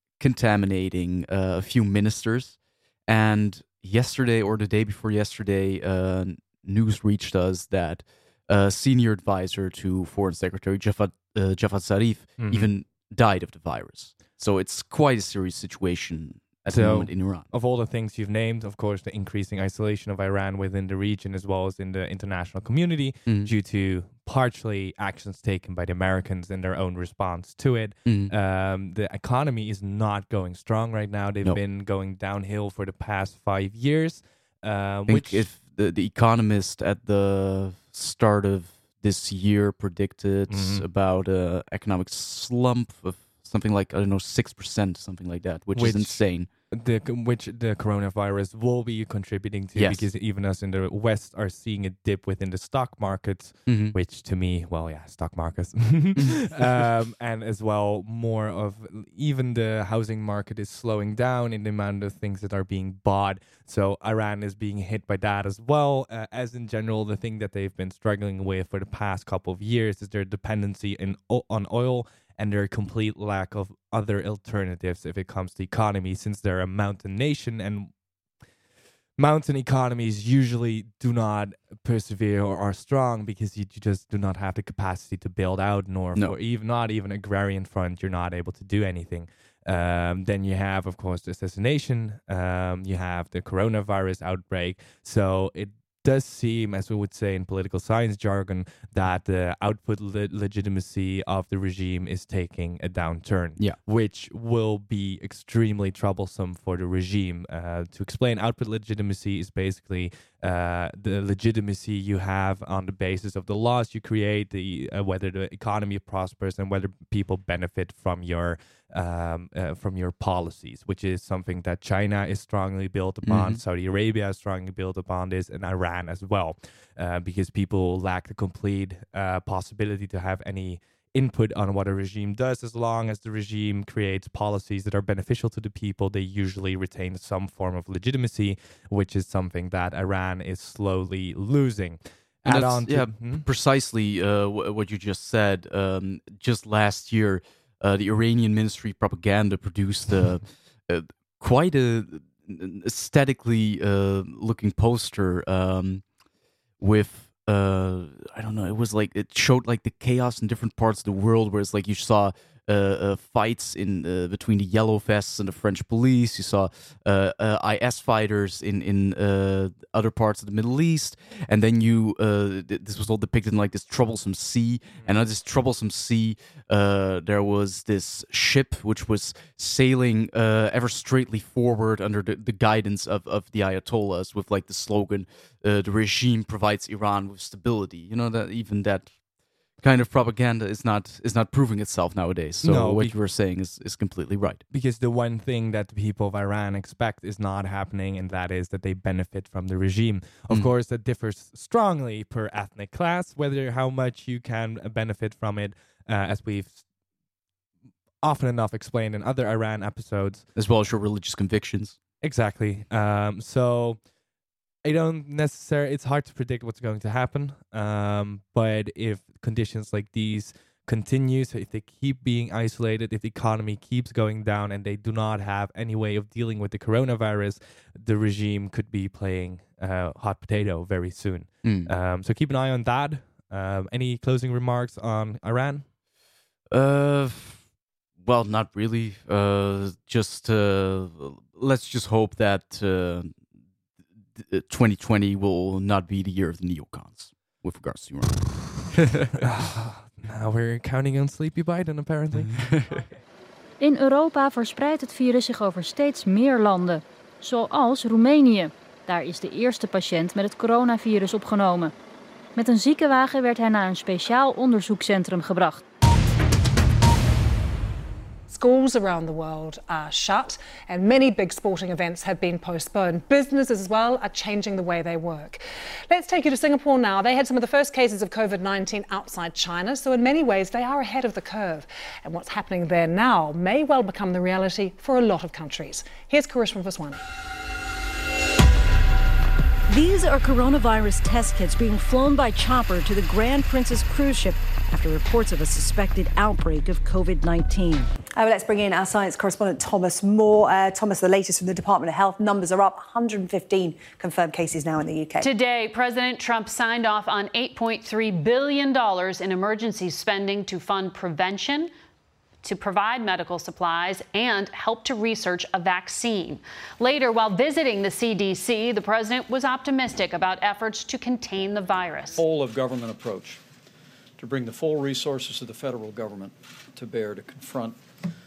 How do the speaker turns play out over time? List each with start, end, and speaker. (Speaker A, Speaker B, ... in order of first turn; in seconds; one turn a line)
Speaker A: 0.2-17.5
Speaker B: 12.4-12.7
Speaker B: 16.7-35.5
Speaker A: 28.1-28.3
Speaker A: 35.1-46.5
Speaker B: 40.5-40.8
Speaker B: 45.7-77.9
Speaker A: 49.7-50.0
Speaker A: 53.7-54.0
Speaker B: 79.2-143.4
Speaker A: 123.2-123.6
Speaker A: 142.4-156.0
Speaker A: 156.8-189.1
Speaker A: 189.8-194.6
Speaker B: 192.6-193.1
Speaker B: 194.7-206.9
Speaker B: 208.2-210.4
Speaker A: 210.6-212.0
Speaker B: 212.2-214.0
Speaker B: 214.8-235.9
Speaker A: 231.6-231.9
Speaker A: 236.7-237.6
Speaker A: 238.2-243.4
Speaker A: 244.3-249.3
Speaker B: 249.3-252.6
Speaker A: 252.5-252.9
Speaker C: 253.8-261.9
Speaker C: 262.6-265.8
Speaker D: 268.5-287.2
Speaker E: 289.9-298.1
Speaker F: 298.4-305.5
Speaker G: 305.4-311.9
Speaker G: 312.6-322.4
Speaker H: 322.4-323.6
Speaker H: 324.4-327.9